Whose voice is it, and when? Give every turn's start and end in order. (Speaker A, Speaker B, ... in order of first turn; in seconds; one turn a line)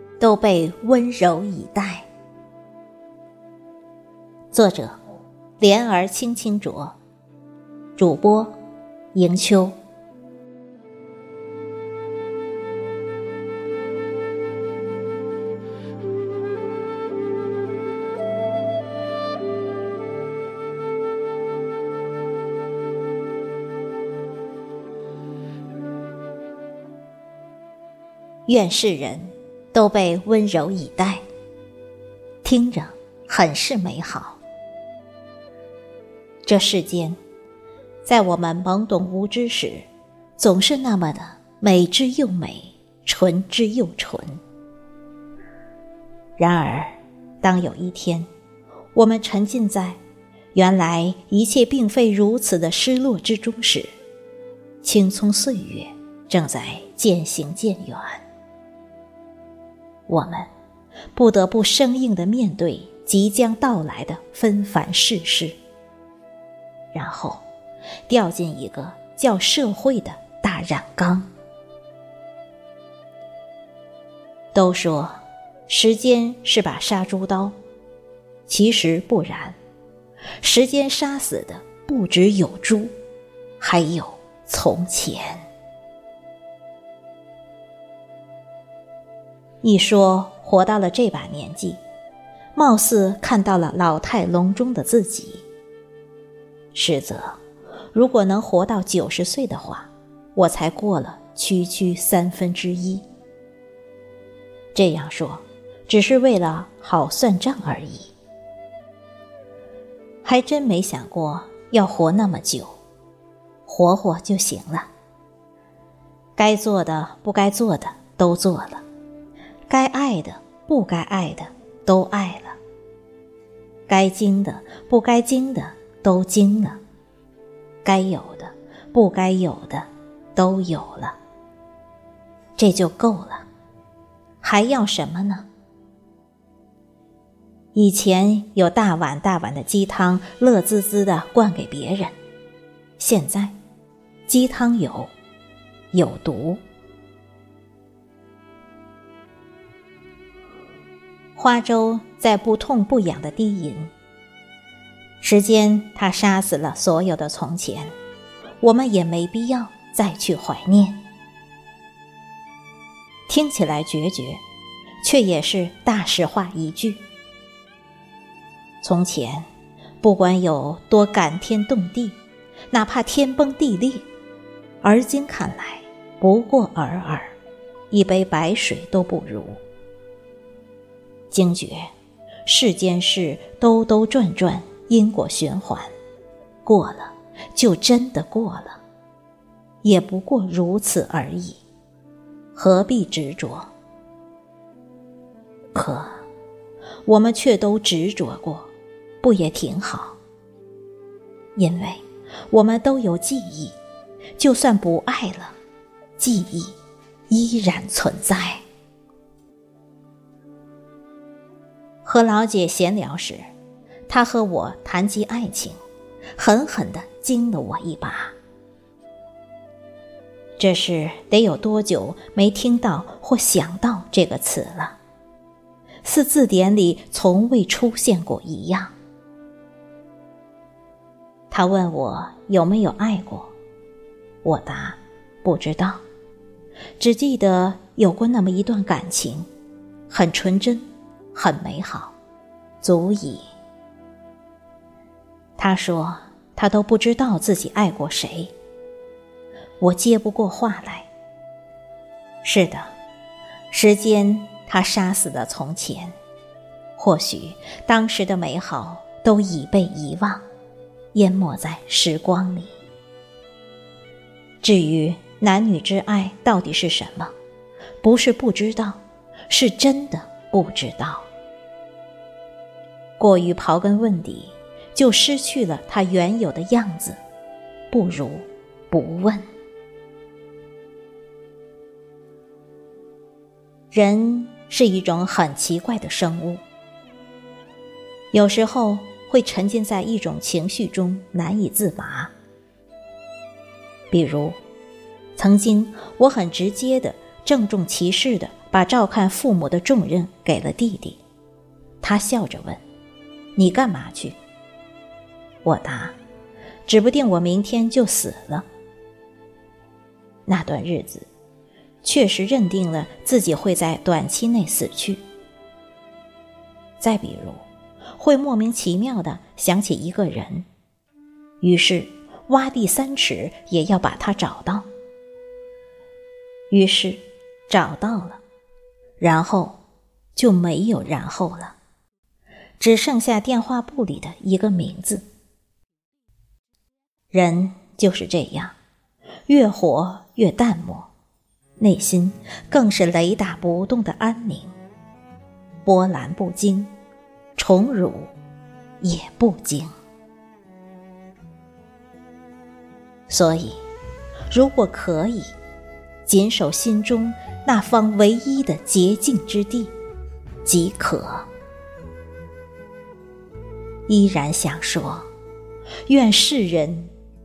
Speaker A: 0.2-2.1
Speaker A: 4.5-5.0
Speaker A: 5.6-7.0
Speaker A: 8.0-8.5
Speaker A: 9.1-9.8
Speaker A: 28.5-31.2
Speaker A: 32.4-34.4
Speaker A: 36.4-37.2
Speaker A: 38.0-44.4
Speaker A: 46.4-48.3
Speaker A: 49.0-50.0
Speaker A: 50.5-53.9
Speaker A: 54.8-58.2
Speaker A: 60.1-60.5
Speaker A: 61.1-65.6
Speaker A: 66.9-67.4
Speaker A: 68.1-71.3
Speaker A: 74.5-77.5
Speaker A: 78.5-79.6
Speaker A: 80.4-82.9
Speaker A: 83.6-85.4
Speaker A: 89.6-91.8
Speaker A: 92.6-95.5
Speaker A: 96.7-97.4
Speaker A: 97.9-103.0
Speaker A: 104.7-108.1
Speaker A: 110.2-112.8
Speaker A: 113.7-114.9
Speaker A: 116.4-118.8
Speaker A: 119.7-122.6
Speaker A: 123.9-126.8
Speaker A: 127.8-131.2
Speaker A: 132.6-133.5
Speaker A: 134.4-135.5
Speaker A: 137.8-142.1
Speaker A: 143.0-143.6
Speaker A: 144.3-145.1
Speaker A: 145.9-146.6
Speaker A: 151.4-153.9
Speaker A: 155.2-157.9
Speaker A: 158.6-161.0
Speaker A: 163.3-164.4
Speaker A: 165.0-167.0
Speaker A: 168.8-169.5
Speaker A: 170.0-172.2
Speaker A: 172.7-174.1
Speaker A: 174.8-177.3
Speaker A: 177.9-179.6
Speaker A: 181.3-181.9
Speaker A: 182.5-185.9
Speaker A: 186.7-188.8
Speaker A: 189.8-191.6
Speaker A: 192.6-193.7
Speaker A: 195.7-196.2
Speaker A: 197.1-198.7
Speaker A: 199.2-200.2
Speaker A: 201.6-203.8
Speaker A: 204.4-205.6
Speaker A: 206.2-206.8
Speaker A: 207.3-208.6
Speaker A: 212.1-213.4
Speaker A: 214.1-215.8
Speaker A: 216.4-218.3
Speaker A: 220.6-225.0
Speaker A: 226.0-228.9
Speaker A: 231.5-233.5
Speaker A: 234.4-236.0
Speaker A: 237.0-239.5
Speaker A: 240.1-242.2
Speaker A: 242.8-243.4
Speaker A: 245.6-248.5
Speaker A: 249.8-251.1
Speaker A: 252.4-252.9
Speaker A: 253.7-256.1
Speaker A: 257.0-260.4
Speaker A: 261.1-262.7
Speaker A: 264.6-267.3
Speaker A: 268.0-271.3
Speaker A: 273.2-277.2
Speaker A: 277.9-279.4
Speaker A: 283.9-286.6
Speaker A: 288.3-292.3
Speaker A: 294.1-294.6
Speaker A: 295.4-301.2
Speaker A: 302.0-302.8
Speaker A: 303.6-304.4
Speaker A: 305.6-306.2
Speaker A: 306.9-308.7
Speaker A: 310.5-311.3
Speaker A: 312.0-315.2
Speaker A: 317.0-317.6
Speaker A: 318.2-320.7
Speaker A: 321.6-324.9
Speaker A: 326.7-328.4
Speaker A: 329.2-329.8
Speaker A: 330.4-331.8
Speaker A: 332.8-335.2
Speaker A: 337.3-338.8
Speaker A: 339.5-341.1
Speaker A: 341.8-344.7
Speaker A: 345.9-346.9
Speaker A: 347.6-348.3
Speaker A: 349.0-349.9
Speaker A: 353.3-353.8
Speaker A: 354.5-355.5
Speaker A: 356.3-359.9
Speaker A: 360.6-361.5
Speaker A: 364.1-365.3
Speaker A: 366.1-367.1